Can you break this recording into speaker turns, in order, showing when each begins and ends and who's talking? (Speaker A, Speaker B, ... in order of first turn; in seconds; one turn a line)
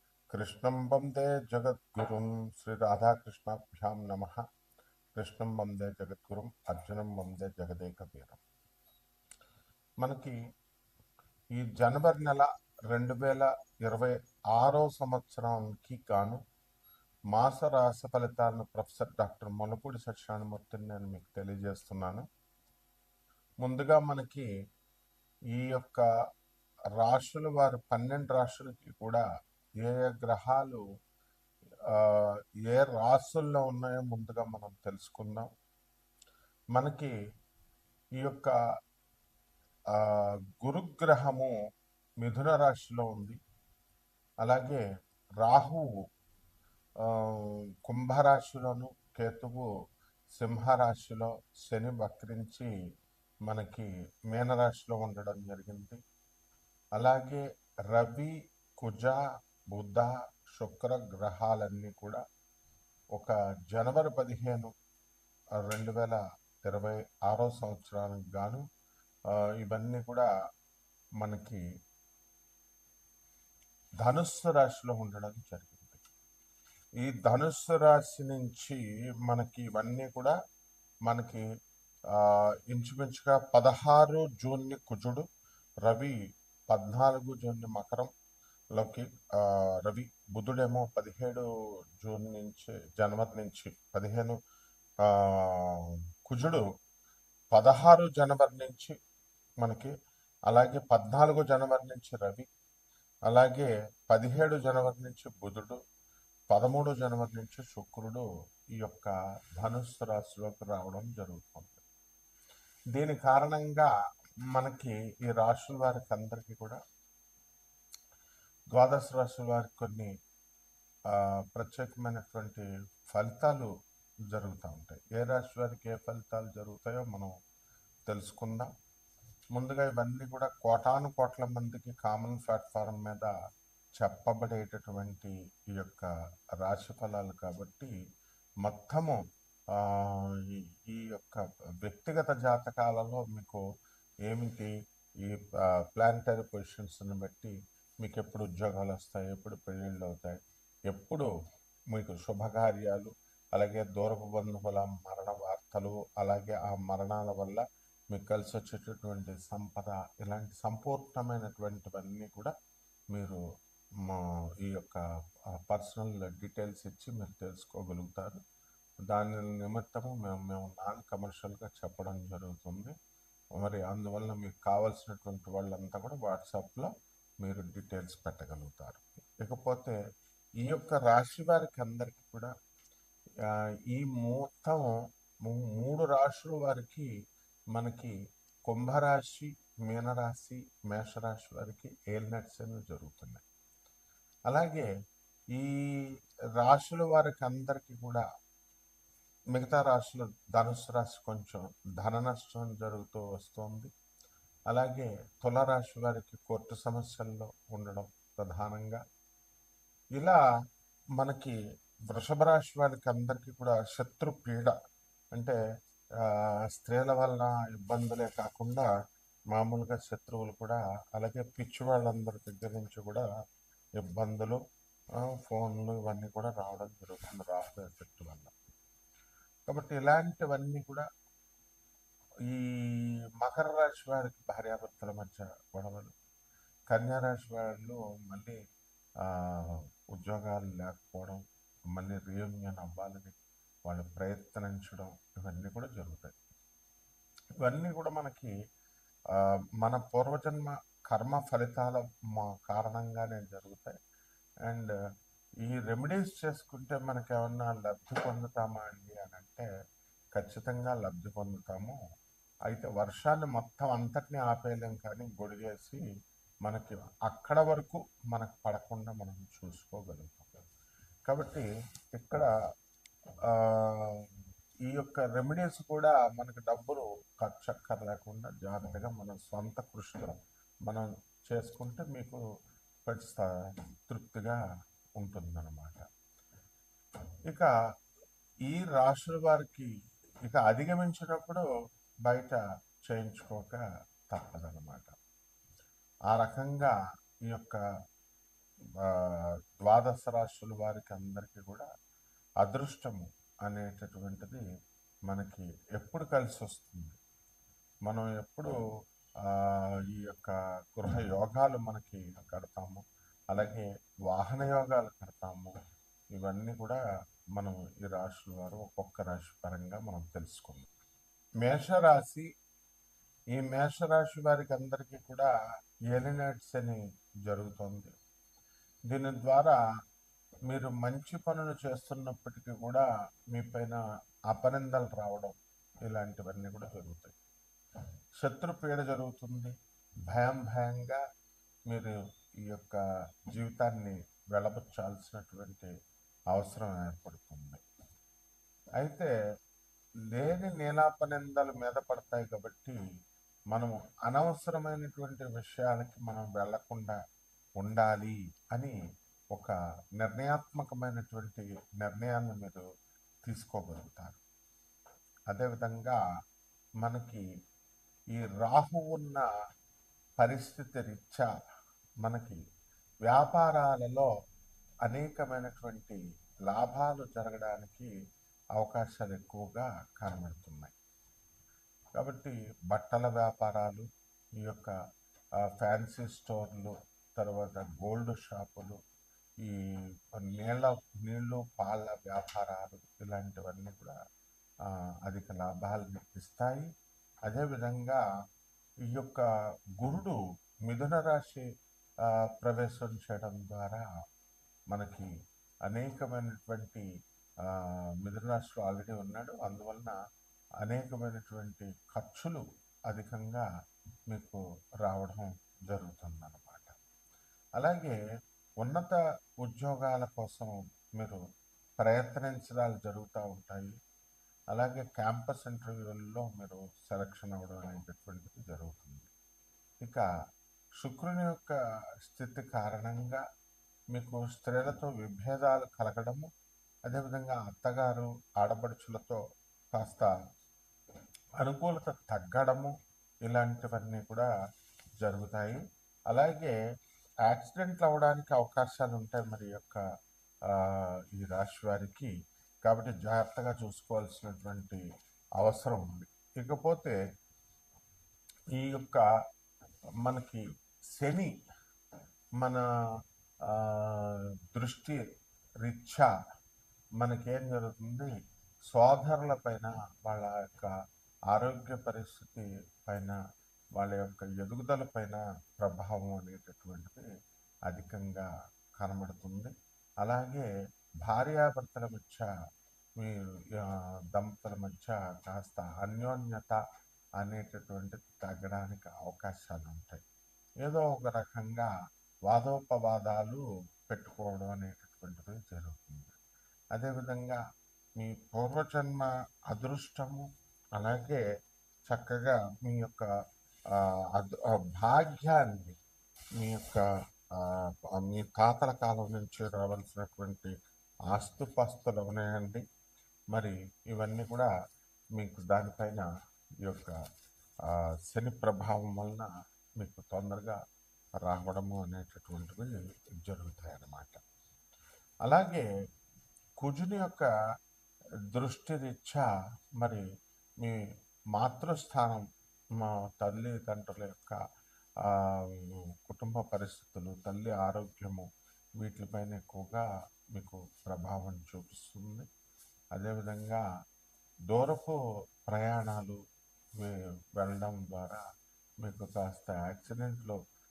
Speaker A: 0.3-4.4
Speaker A: 5.2-8.4
Speaker A: 10.0-10.4
Speaker A: 11.6-16.4
Speaker A: 17.3-22.3
Speaker A: 23.6-24.5
Speaker A: 25.5-26.1
Speaker A: 27.0-29.2
Speaker A: 29.8-30.8
Speaker A: 31.9-35.5
Speaker A: 36.8-37.1
Speaker A: 38.2-38.5
Speaker A: 39.9-41.5
Speaker A: 42.2-43.4
Speaker A: 44.4-44.8
Speaker A: 45.4-45.9
Speaker A: 47.0-49.7
Speaker A: 50.4-52.7
Speaker A: 53.5-56.0
Speaker A: 57.0-59.2
Speaker A: 59.7-62.2
Speaker A: 63.2-64.7
Speaker A: 65.7-68.7
Speaker A: 69.6-70.3
Speaker A: 71.2-71.6
Speaker A: 74.0-76.0
Speaker A: 77.0-80.4
Speaker A: 81.1-81.5
Speaker A: 82.1-85.2
Speaker A: 85.8-86.2
Speaker A: 86.7-88.1
Speaker A: 88.8-91.5
Speaker A: 92.0-94.4
Speaker A: 95.0-96.6
Speaker A: 97.5-99.0
Speaker A: 99.6-99.9
Speaker A: 100.5-102.5
Speaker A: 103.3-105.8
Speaker A: 106.5-108.3
Speaker A: 108.8-111.8
Speaker A: 112.9-113.9
Speaker A: 114.5-116.8
Speaker A: 118.7-120.1
Speaker A: 121.1-123.7
Speaker A: 124.3-127.3
Speaker A: 128.1-128.7
Speaker A: 129.5-133.3
Speaker A: 134.0-137.9
Speaker A: 138.6-139.2
Speaker A: 139.7-143.6
Speaker A: 144.3-151.3
Speaker A: 151.9-162.5
Speaker A: 163.1-163.4
Speaker A: 164.0-165.0
Speaker A: 165.6-168.4
Speaker A: 169.0-172.9
Speaker A: 173.6-176.9
Speaker A: 177.4-180.0
Speaker A: 180.6-182.5
Speaker A: 183.4-187.1
Speaker A: 187.7-188.1
Speaker A: 188.7-193.4
Speaker A: 194.5-194.9
Speaker A: 195.5-198.2
Speaker A: 199.5-203.9
Speaker A: 204.7-209.0
Speaker A: 211.2-211.6
Speaker A: 212.1-214.8
Speaker A: 216.2-218.9
Speaker A: 219.5-223.3
Speaker A: 224.0-224.6
Speaker A: 225.2-228.5
Speaker A: 229.7-231.1
Speaker A: 232.5-236.1
Speaker A: 236.9-238.6
Speaker A: 239.2-241.4
Speaker A: 241.9-246.3
Speaker A: 247.6-248.5
Speaker A: 249.3-253.9
Speaker A: 254.7-254.9
Speaker A: 255.6-259.7
Speaker A: 260.4-262.0
Speaker A: 262.7-266.0
Speaker A: 266.7-270.6
Speaker A: 271.3-272.5
Speaker A: 273.5-274.3
Speaker A: 274.9-280.3
Speaker A: 280.9-282.4
Speaker A: 283.1-284.6
Speaker A: 285.2-286.0
Speaker A: 288.7-289.9
Speaker A: 290.5-291.7
Speaker A: 292.3-295.1
Speaker A: 296.3-296.9
Speaker A: 297.5-297.8
Speaker A: 299.0-301.9
Speaker A: 302.6-304.6
Speaker A: 305.3-307.2
Speaker A: 308.1-308.8
Speaker A: 309.5-315.7
Speaker A: 316.4-317.0
Speaker A: 317.6-320.9
Speaker A: 321.6-322.5
Speaker A: 323.6-325.5
Speaker A: 326.1-328.1
Speaker A: 329.1-329.8
Speaker A: 330.7-334.0
Speaker A: 334.5-335.6
Speaker A: 336.1-337.4
Speaker A: 338.4-339.8
Speaker A: 340.3-341.2
Speaker A: 341.9-345.9
Speaker A: 346.5-347.8
Speaker A: 349.0-349.3
Speaker A: 350.3-353.0
Speaker A: 353.7-357.2
Speaker A: 357.8-359.0
Speaker A: 359.5-362.9
Speaker A: 363.5-364.4
Speaker A: 365.5-366.2
Speaker A: 367.0-367.4
Speaker A: 368.4-369.5
Speaker A: 370.4-371.5
Speaker A: 372.2-372.6
Speaker A: 373.3-374.3
Speaker A: 375.1-378.1
Speaker A: 378.8-380.9
Speaker A: 382.2-384.1
Speaker A: 384.6-384.9
Speaker A: 385.6-389.0
Speaker A: 389.6-394.1
Speaker A: 394.9-396.9
Speaker A: 397.5-398.2
Speaker A: 399.1-399.4
Speaker A: 400.0-401.7
Speaker A: 402.3-404.0
Speaker A: 404.9-405.3
Speaker A: 405.9-407.1
Speaker A: 407.6-410.2
Speaker A: 410.8-413.7
Speaker A: 414.3-417.0
Speaker A: 417.8-418.2
Speaker A: 418.8-421.4
Speaker A: 422.0-424.0
Speaker A: 424.7-429.3
Speaker A: 431.0-433.4
Speaker A: 434.1-436.5
Speaker A: 437.1-439.4
Speaker A: 439.9-440.3
Speaker A: 441.6-442.9
Speaker A: 443.4-444.5
Speaker A: 445.2-446.8
Speaker A: 447.5-450.0
Speaker A: 450.7-452.3
Speaker A: 452.9-455.0
Speaker A: 455.6-457.2
Speaker A: 458.8-459.2
Speaker A: 460.2-460.6
Speaker A: 461.1-461.5
Speaker A: 463.7-465.2
Speaker A: 465.8-466.3
Speaker A: 467.2-468.3
Speaker A: 468.9-470.9
Speaker A: 471.5-473.4
Speaker A: 474.0-477.3
Speaker A: 477.9-480.7
Speaker A: 481.3-482.5
Speaker A: 483.2-486.8
Speaker A: 487.4-490.2
Speaker A: 490.8-491.9
Speaker A: 492.5-496.4
Speaker A: 496.9-497.6
Speaker A: 498.2-501.4
Speaker A: 502.1-503.3
Speaker A: 503.9-506.0
Speaker A: 506.6-507.1
Speaker A: 507.6-510.8
Speaker A: 511.3-512.8
Speaker A: 513.5-514.7
Speaker A: 515.4-516.3
Speaker A: 516.8-517.2
Speaker A: 517.9-519.5
Speaker A: 520.0-520.8
Speaker A: 521.4-524.4
Speaker A: 525.5-525.9
Speaker A: 526.8-527.5
Speaker A: 528.5-529.5
Speaker A: 530.0-530.2
Speaker A: 531.5-532.4
Speaker A: 533.0-534.6
Speaker A: 535.2-538.5
Speaker A: 539.0-542.5
Speaker A: 543.1-543.9
Speaker A: 544.7-545.2
Speaker A: 545.7-546.4
Speaker A: 547.0-548.4
Speaker A: 549.0-550.6